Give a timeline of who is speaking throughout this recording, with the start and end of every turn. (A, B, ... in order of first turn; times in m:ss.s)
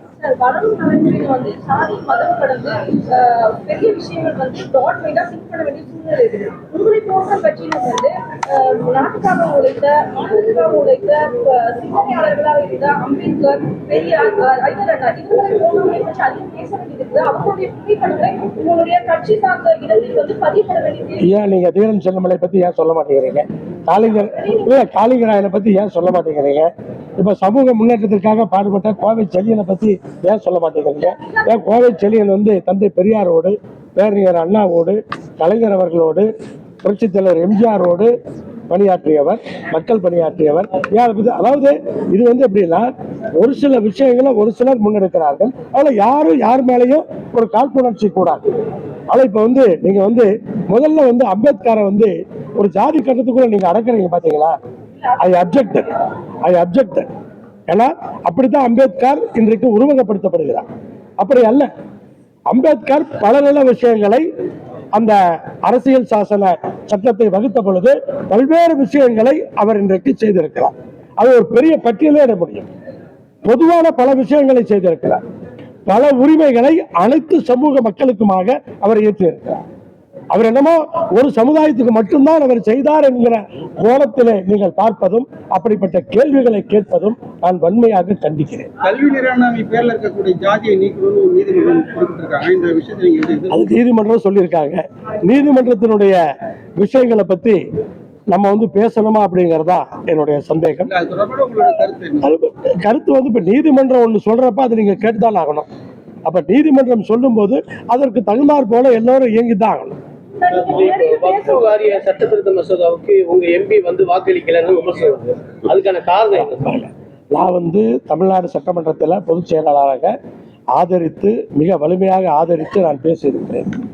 0:00.2-0:21.3 A
0:21.2-0:36.3 B
0:24.3-0:24.6 A
0:36.8-0:38.1 B
0:38.7-0:48.4 B
0:49.1-0:54.5 B
0:55.0-0:55.8 A
0:55.2-0:57.1 B
0:57.7-1:00.7 B
1:01.2-1:01.7 B
1:02.5-1:04.2 B
1:04.9-1:12.7 B
1:13.4-1:15.2 B
1:15.9-1:19.6 B
1:20.3-1:28.7 B
1:28.8-1:33.6 C
1:33.5-1:36.2 B
1:36.8-1:37.6 B
1:38.3-1:40.9 B
1:40.9-1:42.3 C
1:42.2-1:45.7 B
1:46.2-1:50.0 B
1:50.4-1:52.0 A
1:50.5-1:56.6 D
1:56.3-2:00.1 B
2:00.8-2:03.7 B